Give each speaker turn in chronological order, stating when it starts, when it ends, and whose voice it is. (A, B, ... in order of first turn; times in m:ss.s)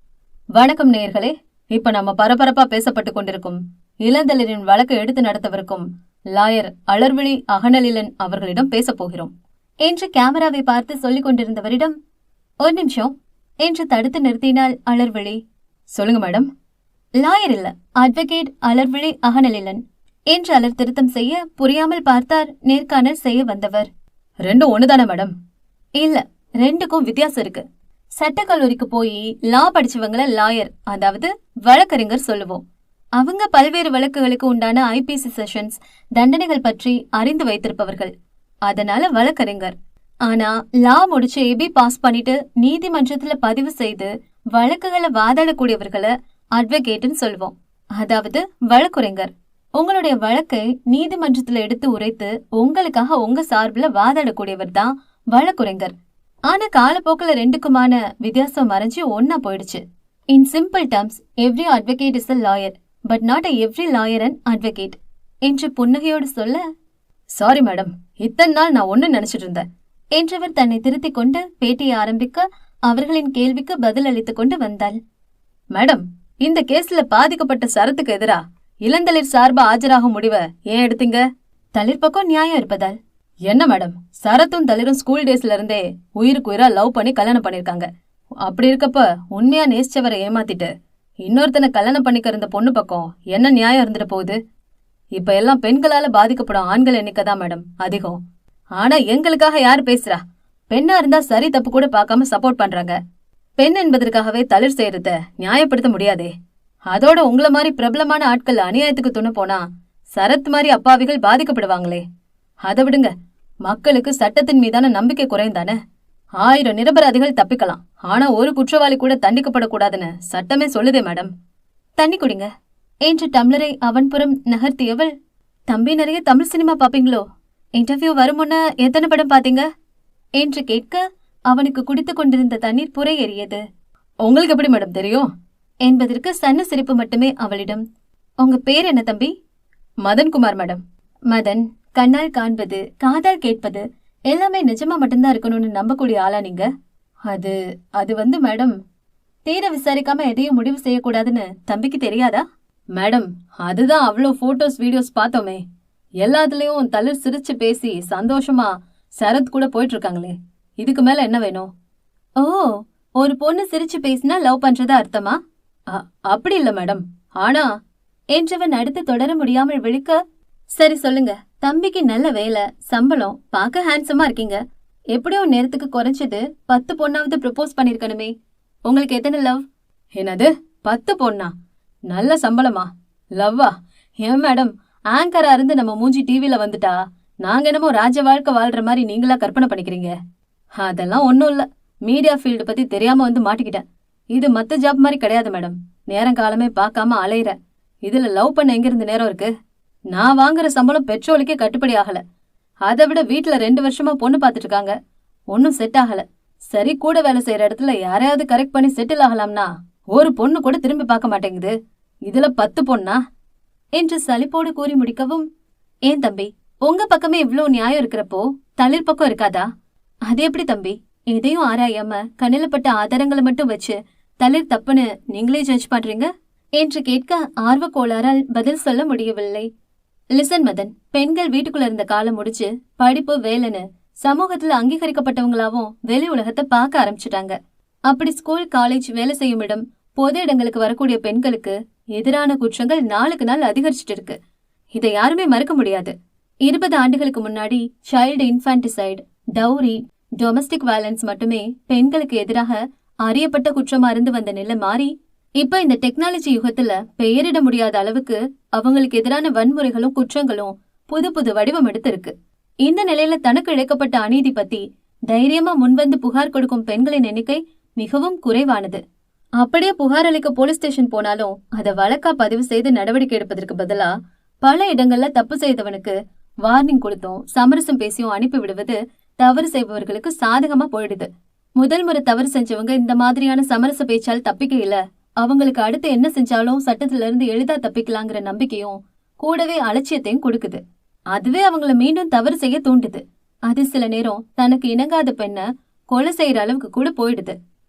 0:00.6-0:09.3 A
0:09.8-0:12.0 A
0:12.6-0:13.1 A
0:13.6-0:15.4 A
0:15.9-0:16.5 A
0:17.2-0:19.8 A
0:20.3-0:23.9 A
0:24.5-0:25.3 A
0:26.0-0:27.6 A
0:28.2-0:32.6 A
0:33.2-0:38.1 A
0:38.7-0:39.7 A
0:40.3-0:55.9 A
0:56.5-0:59.8 A
1:00.3-1:06.6 A
1:07.4-1:09.6 A
1:10.2-1:15.0 A
1:15.7-1:21.2 A
1:21.8-1:23.0 A
1:23.5-1:27.9 A
1:28.4-1:30.7 A
1:31.2-1:34.4 A
1:35.2-1:38.2 A
1:38.8-1:43.0 A
1:43.6-1:46.3 A
1:46.9-1:49.6 A
1:50.1-1:52.0 A
1:52.6-1:53.1 A
1:53.6-1:55.8 A
1:56.4-2:01.3 A
2:02.0-2:02.5 A
2:03.1-2:05.1 A
2:05.7-2:07.2 A
2:07.8-2:09.6 A
2:10.4-2:13.6 A
2:14.2-2:15.3 A
2:15.8-2:17.8 A
2:18.4-2:19.3 A
2:20.0-2:26.7 A
2:27.3-2:28.8 A
2:29.4-2:32.4 A
2:33.0-2:35.6 A
2:36.2-2:41.7 A
2:42.4-2:45.4 A
2:45.9-2:47.7 A
2:48.3-2:50.2 A
2:50.8-2:54.6 A
2:55.1-2:58.3 A
2:58.9-2:59.6 A
3:00.2-3:01.5 A
3:02.1-3:03.7 A
3:04.2-3:10.1 A
3:10.8-3:17.6 A
3:18.1-3:19.5 A
3:20.1-3:22.2 A
3:22.9-3:24.9 A
3:25.5-3:31.7 A
3:32.2-3:33.2 A
3:34.0-3:35.5 A
3:36.1-3:39.7 A
3:40.2-3:49.7 A
3:50.3-3:57.6 A
3:58.1-4:04.4 A
4:04.9-4:06.1 A
4:06.6-4:29.0 A
4:29.6-4:50.8 A
4:51.3-4:57.6 A